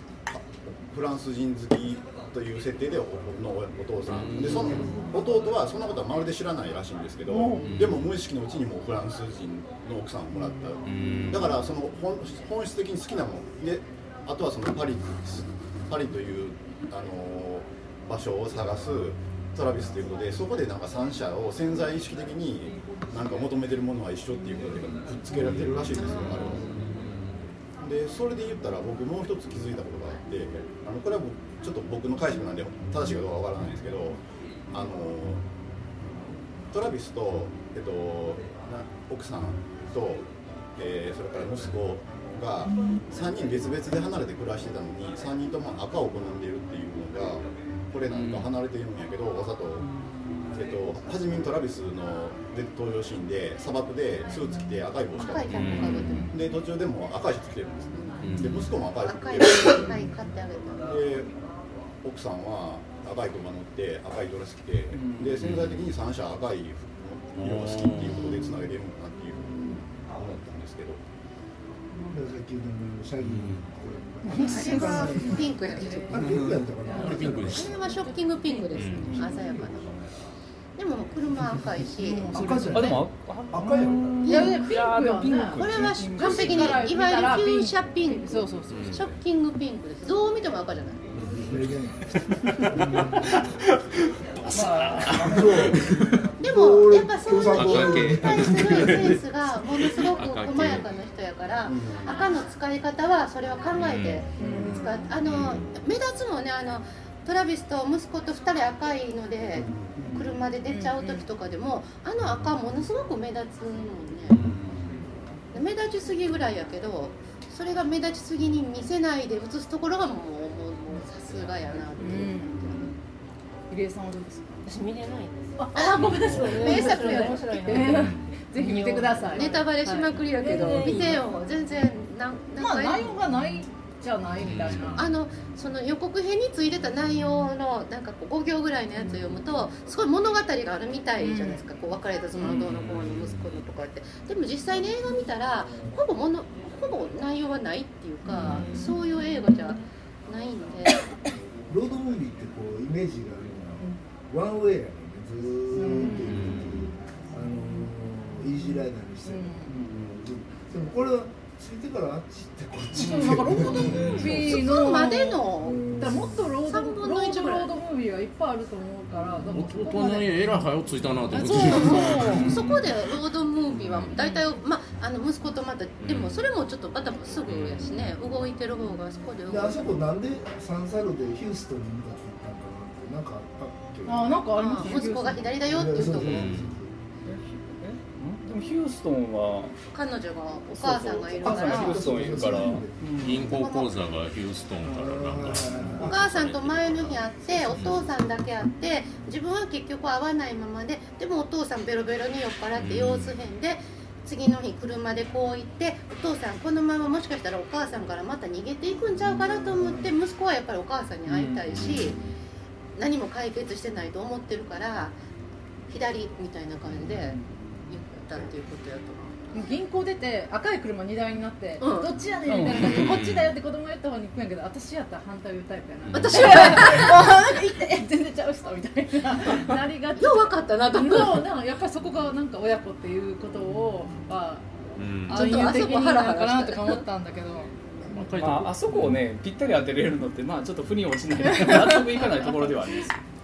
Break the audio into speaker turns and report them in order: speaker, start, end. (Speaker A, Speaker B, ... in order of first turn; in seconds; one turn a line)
Speaker A: 0.3-26.8
Speaker B: 4.1-4.9
Speaker C: 7.3-8.0
Speaker B: 7.6-8.0
Speaker B: 10.8-11.6
Speaker B: 25.3-27.5
Speaker D: 25.9-26.6
Speaker A: 27.8-35.4
Speaker A: 36.7-49.9
Speaker B: 48.1-48.5
Speaker E: 49.8-50.4
Speaker A: 50.5-60.0
Speaker D: 55.1-56.4
Speaker B: 55.5-56.3
Speaker B: 58.2-58.6
Speaker D: 59.0-61.1
Speaker A: 60.8-61.3
Speaker A: 62.0-71.0
Speaker E: 64.9-65.8
Speaker B: 65.3-65.9
Speaker B: 67.4-68.7
Speaker F: 72.1-77.7
Speaker B: 73.2-73.7
Speaker C: 74.2-79.3
Speaker D: 74.5-76.4
Speaker B: 76.2-77.8
Speaker D: 77.0-80.0
Speaker B: 78.7-79.2
Speaker E: 79.0-79.3
Speaker F: 79.1-80.2
Speaker D: 80.8-82.3
Speaker C: 82.0-83.0
Speaker F: 82.3-84.2
Speaker E: 82.3-86.9
Speaker D: 84.2-84.6
Speaker C: 84.3-89.0
Speaker D: 85.6-91.0
Speaker B: 88.7-89.2
Speaker B: 91.1-91.7
Speaker F: 91.2-93.3
Speaker B: 92.5-93.5
Speaker B: 94.1-96.3
Speaker C: 94.5-95.8
Speaker F: 95.2-95.8
Speaker D: 96.4-114.4
Speaker F: 96.4-99.2
Speaker B: 97.5-100.9
Speaker A: 101.7-102.1
Speaker B: 103.8-104.3
Speaker C: 104.4-105.1
Speaker E: 104.4-104.7
Speaker B: 105.2-105.7
Speaker A: 109.6-110.0
Speaker E: 110.0-110.3
Speaker C: 110.7-111.3
Speaker B: 114.3-115.1
Speaker D: 115.5-122.9
Speaker C: 122.0-122.8
Speaker B: 122.7-123.0
Speaker C: 123.7-124.6
Speaker G: 124.6-129.7
Speaker C: 125.6-131.2
Speaker D: 125.7-127.4
Speaker B: 126.0-126.7
Speaker B: 127.7-128.4
Speaker D: 128.7-133.2
Speaker G: 130.3-131.2
Speaker C: 132.6-135.1
Speaker B: 134.4-135.1
Speaker D: 135.0-151.1
Speaker C: 141.2-141.6
Speaker B: 142.4-143.6
Speaker F: 145.7-146.0
Speaker B: 148.3-148.9
Speaker F: 151.7-164.6
Speaker C: 155.8-156.6
Speaker B: 156.2-156.8
Speaker C: 159.3-159.8
Speaker E: 159.7-160.2
Speaker C: 162.9-170.4
Speaker D: 163.7-165.9
Speaker B: 163.8-164.5
Speaker F: 165.6-166.5
Speaker D: 166.7-167.7
Speaker B: 169.5-172.6
Speaker C: 171.3-172.6
Speaker D: 171.4-179.9
Speaker B: 173.7-174.2
Speaker C: 174.1-174.5
Speaker B: 176.0-176.5
Speaker B: 177.4-178.1
Speaker F: 179.5-184.9
Speaker C: 184.1-185.5
Speaker D: 184.5-186.5
Speaker F: 185.7-187.0
Speaker B: 186.1-186.7
Speaker E: 187.2-189.8
Speaker D: 189.9-192.7
Speaker F: 190.9-193.0
Speaker E: 191.4-193.5
Speaker C: 191.5-192.0
Speaker B: 191.7-198.1
Speaker D: 193.4-194.0
Speaker F: 194.8-196.2
Speaker D: 196.0-212.2
Speaker B: 202.8-203.3
Speaker F: 209.2-210.1
Speaker E: 211.3-211.7
Speaker B: 211.7-212.2
Speaker D: 212.9-215.2
Speaker D: 215.9-219.5
Speaker E: 217.3-217.8
Speaker C: 219.5-234.7
Speaker D: 221.8-222.2
Speaker E: 222.5-223.0
Speaker B: 222.7-223.5
Speaker B: 226.0-226.9
Speaker D: 226.1-227.2
Speaker D: 230.2-231.5
Speaker B: 235.0-235.7
Speaker C: 235.3-237.7
Speaker D: 235.3-237.1
Speaker B: 238.0-239.2
Speaker E: 238.3-243.2
Speaker C: 241.5-242.2